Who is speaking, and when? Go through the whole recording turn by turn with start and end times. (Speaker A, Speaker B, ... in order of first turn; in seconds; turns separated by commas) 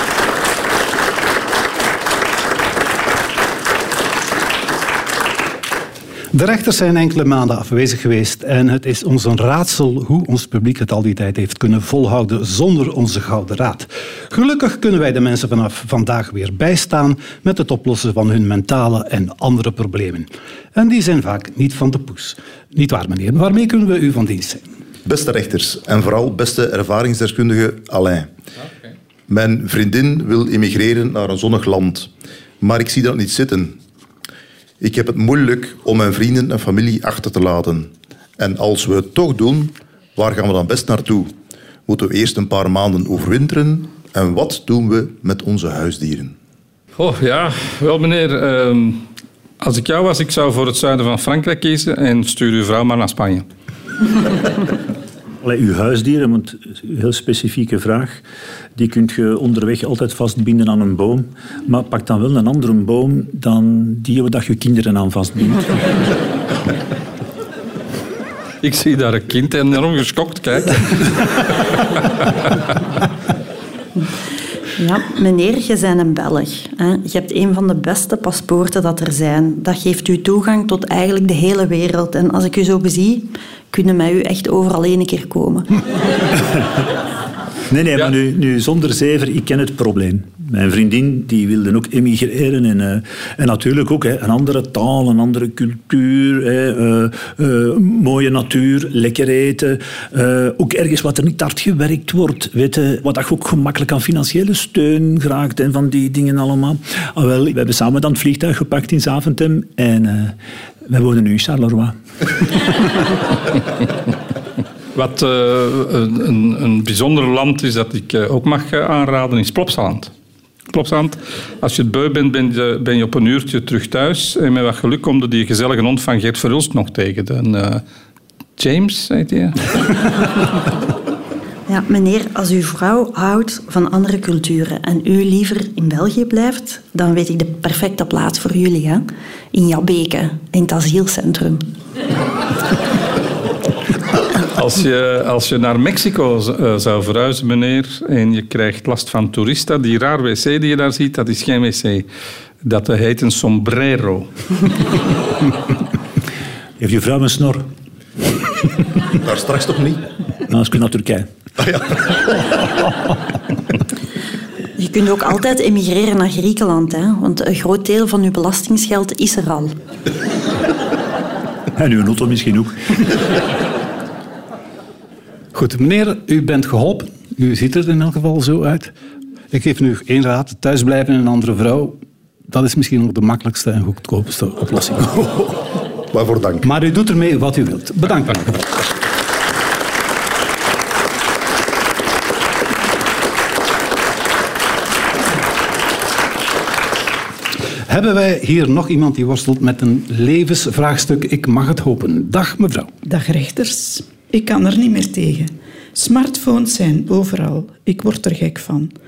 Speaker A: 6.3-24.7, Speaker B: 25.1-28.3, Speaker B: 29.3-32.1, Speaker B: 32.6-33.8, Speaker B: 34.8-41.3, Speaker B: 41.9-46.4, Speaker C: 47.0-49.1, Speaker C: 49.6-53.5, Speaker D: 55.4-58.2, Speaker D: 58.8-66.0, Speaker C: 68.6-71.1, Speaker E: 74.8-85.7, Speaker D: 87.7-112.0, Speaker C: 114.9-120.1, Speaker C: 120.7-127.8, Speaker C: 128.6-129.7, Speaker E: 131.7-141.7, Speaker C: 144.5-152.1, Speaker C: 152.6-154.3, Speaker D: 156.8-157.7, Speaker B: 159.2-160.0, Speaker D: 160.5-161.3, Speaker B: 161.6-162.0, Speaker E: 164.8-169.8, Speaker D: 171.8-173.1, Speaker A: 175.5-178.9, Speaker A: 179.5-182.0, Speaker A: 182.5-185.3, Speaker B: 186.1-186.6, Speaker A: 186.6-188.7, Speaker A: 197.9-202.9, Speaker F: 203.1-208.9